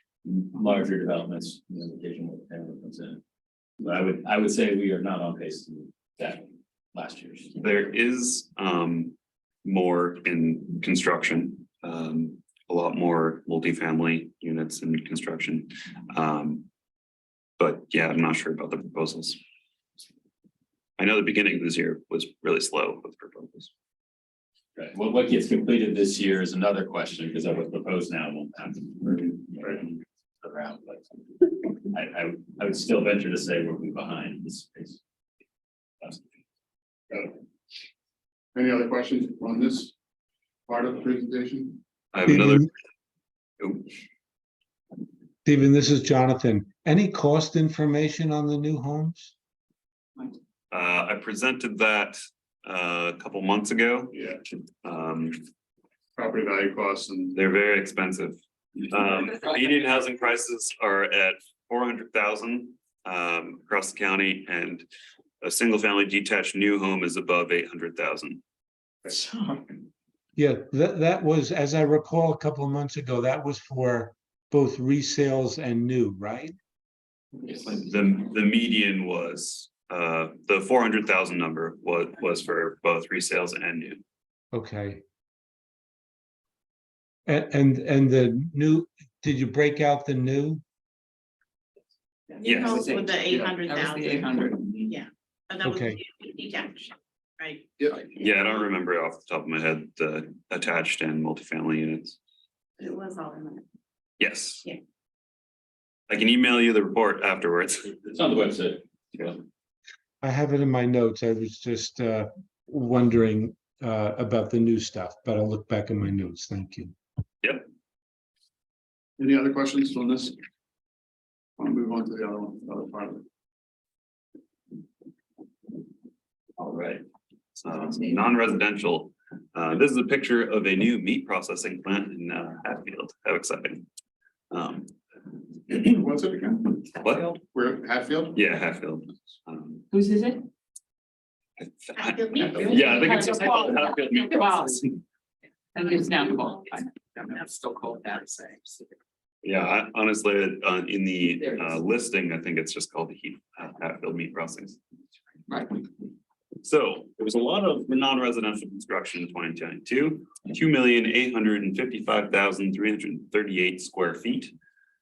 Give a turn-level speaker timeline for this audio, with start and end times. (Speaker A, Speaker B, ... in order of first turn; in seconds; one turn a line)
Speaker A: 0.2-3.2
Speaker A: 3.8-7.6
Speaker B: 7.6-16.7
Speaker B: 17.6-19.4
Speaker B: 21.0-23.7
Speaker A: 24.8-35.0
Speaker A: 36.0-36.3
Speaker C: 38.5-39.9
Speaker C: 40.7-41.8
Speaker B: 42.1-42.7
Speaker D: 42.3-42.7
Speaker B: 43.6-43.9
Speaker D: 45.5-49.3
Speaker B: 50.7-54.2
Speaker C: 54.1-54.4
Speaker B: 54.8-55.4
Speaker C: 56.2-57.4
Speaker B: 57.3-64.9
Speaker B: 65.4-68.4
Speaker E: 69.2-69.5
Speaker D: 70.4-76.6
Speaker B: 77.5-84.0
Speaker D: 84.5-85.0
Speaker D: 87.3-90.6
Speaker F: 92.4-94.3
Speaker B: 92.4-93.0
Speaker E: 92.8-94.8
Speaker F: 94.8-97.7
Speaker D: 95.6-96.0
Speaker B: 98.2-102.2
Speaker F: 102.8-103.7
Speaker B: 104.2-104.7
Speaker B: 106.1-107.9
Speaker A: 107.9-108.8
Speaker D: 110.2-116.9
Speaker C: 119.2-120.4
Speaker C: 121.6-123.2
Speaker B: 127.6-133.8
Speaker B: 134.5-134.9
Speaker C: 135.7-136.9
Speaker B: 137.0-137.4
Speaker C: 137.5-138.4
Speaker B: 138.3-139.9
Speaker E: 139.9-140.4
Speaker B: 141.6-144.9
Speaker F: 141.9-143.2
Speaker E: 142.6-144.8
Speaker E: 145.8-148.9
Speaker B: 149.4-154.8
Speaker B: 156.6-164.5